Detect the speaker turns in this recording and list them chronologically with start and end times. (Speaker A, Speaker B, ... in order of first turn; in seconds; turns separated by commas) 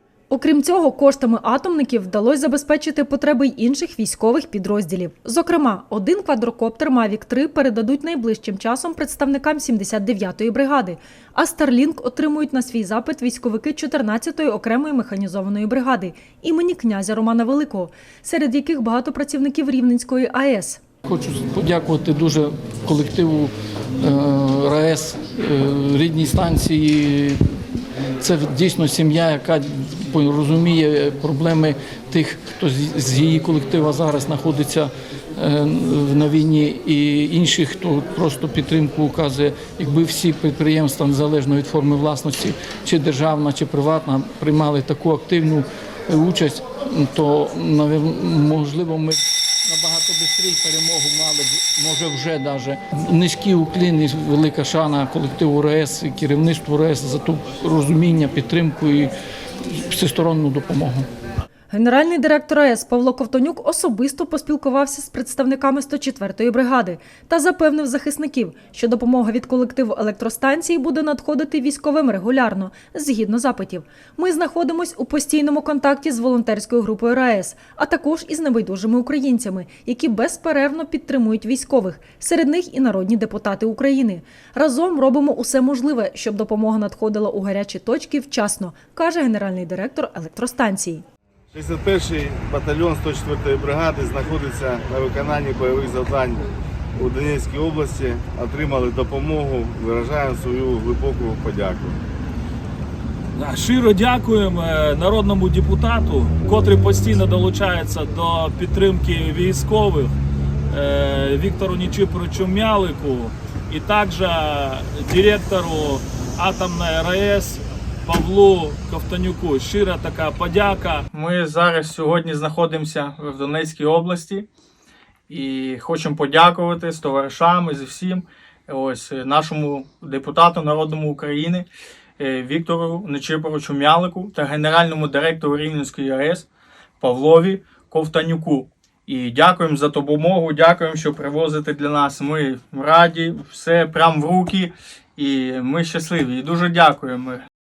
Speaker A: 0.3-20.8, Speaker B: 21.1-27.4, Speaker B: 28.2-59.1, Speaker B: 59.9-61.1, Speaker A: 61.7-91.0, Speaker C: 91.5-96.5, Speaker C: 97.0-102.0, Speaker D: 103.4-110.1, Speaker D: 110.7-121.1, Speaker E: 121.1-124.5, Speaker E: 125.3-131.7, Speaker E: 132.2-136.5, Speaker E: 137.0-147.4